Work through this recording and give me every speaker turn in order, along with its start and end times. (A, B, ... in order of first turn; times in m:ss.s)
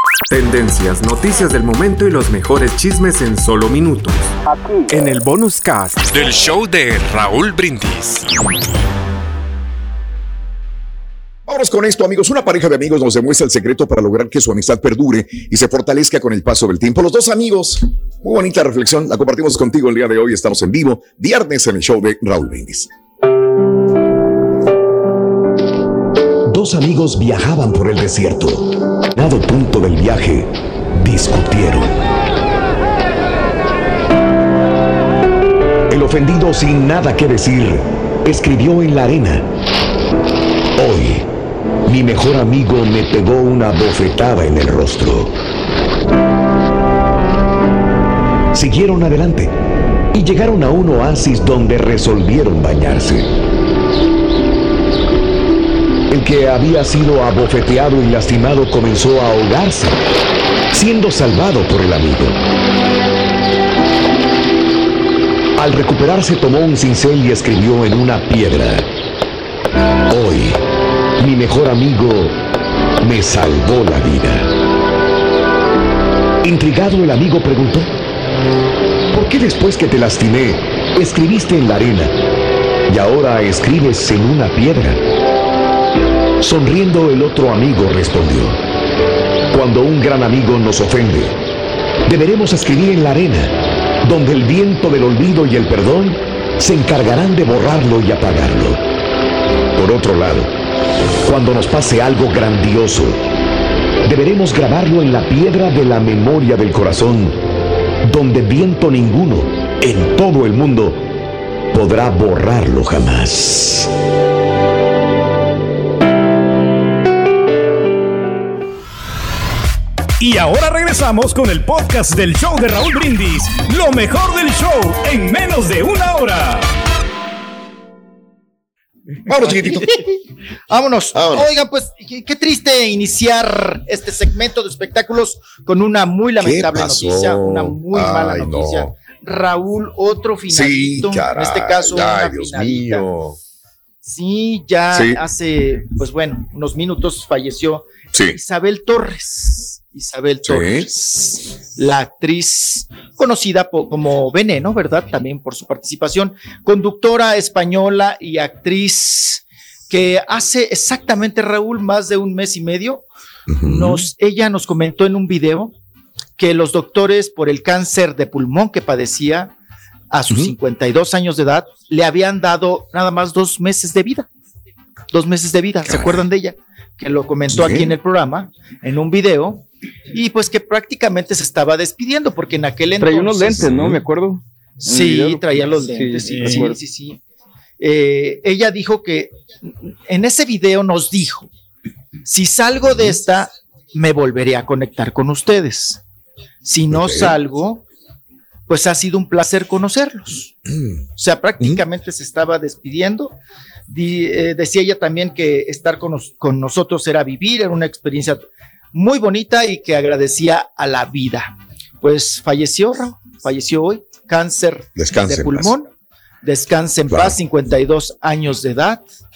0:00.3-0:04.4 A
0:04.9-0:08.3 A
0:11.5-0:22.9 B
0:26.5-0:31.9 C
0:35.9-0:39.5 C
0:40.8-0:41.3 C
0:41.9-0:45.4 C
0:48.5-0:49.5 C
0:50.1-0:53.3 C
0:56.1-1:00.0 C
1:00.7-1:02.4 C
1:05.6-1:08.9 C
1:10.1-1:10.6 C
1:11.2-1:12.4 C
1:13.0-1:14.5 C
1:16.4-1:17.9 C
1:19.1-1:22.2 C
1:22.9-1:25.0 C
1:26.4-1:28.6 C
1:29.5-1:31.4 C
1:32.1-1:38.8 C
1:39.8-1:40.5 C
1:41.2-1:43.2 C
1:44.0-1:47.4 C
1:48.0-1:51.1 C
1:51.7-1:53.9 C
2:00.2-2:06.7 D
2:09.3-2:09.9 B
2:09.6-2:23.1 E
2:11.2-2:11.5 B
2:16.4-2:18.9 B
2:20.5-2:23.4 B
2:24.0-2:43.1 E
2:24.9-2:25.2 B
2:30.4-2:30.9 B
2:43.5-2:44.0 B
2:43.6-2:45.7 E
2:46.4-2:49.5 E
2:50.1-2:54.3 E
2:55.1-3:03.7 E
2:57.5-2:57.9 B
3:03.0-3:06.8 F
3:03.6-3:04.0 B
3:04.8-3:07.2 E
3:06.3-3:06.6 D
3:07.8-3:11.5 E
3:12.2-3:16.0 E
3:16.6-3:17.8 E
3:16.9-3:17.3 B
3:18.7-3:20.6 E
3:21.2-3:23.4 E
3:23.9-3:35.9 E
3:35.0-3:35.7 B
3:36.4-3:39.0 E